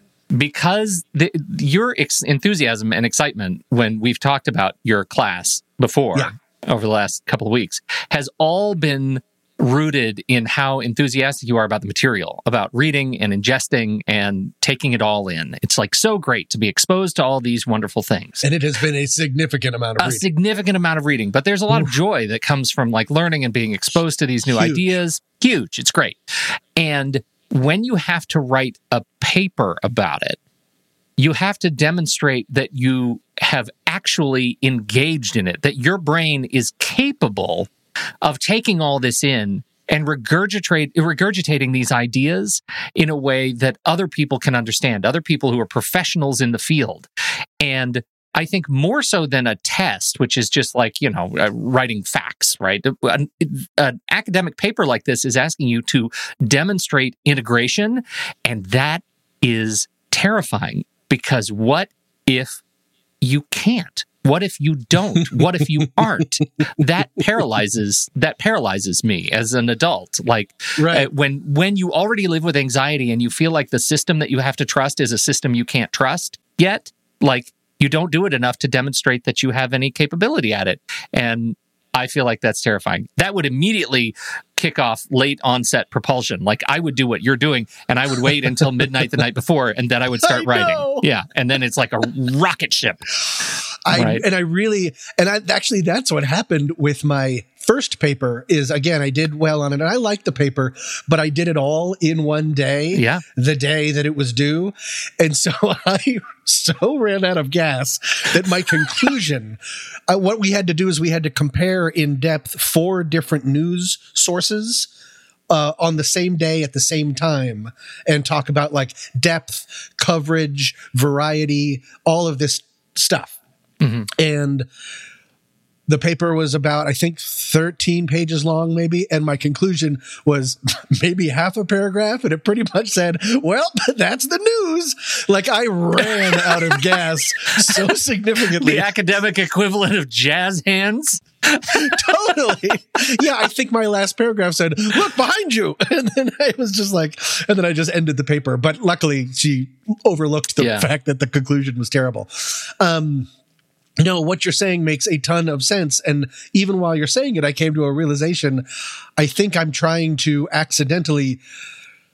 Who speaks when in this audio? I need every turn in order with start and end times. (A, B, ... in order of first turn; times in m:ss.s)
0:00.3-0:18.4 A
0:18.4-0:20.2 B
0:20.0-0:30.4 A
0:24.5-0:24.8 B
0:31.2-0:37.7 A
0:38.2-0:47.1 A
0:47.6-1:02.6 A
1:03.2-1:33.0 A
1:10.8-1:11.1 B
1:28.6-1:29.0 B
1:30.2-1:31.0 B
1:33.8-1:54.9 B
1:33.9-1:34.2 A
1:42.9-1:43.2 A
1:55.5-2:03.4 B
2:03.8-2:04.1 A
2:04.1-2:04.6 B
2:05.9-2:18.9 B
2:16.0-2:16.8 A
2:17.6-2:17.8 A
2:18.5-2:22.4 A
2:21.7-2:33.3 B
2:30.6-2:30.9 A
2:34.0-2:38.6 B
2:39.2-2:41.4 B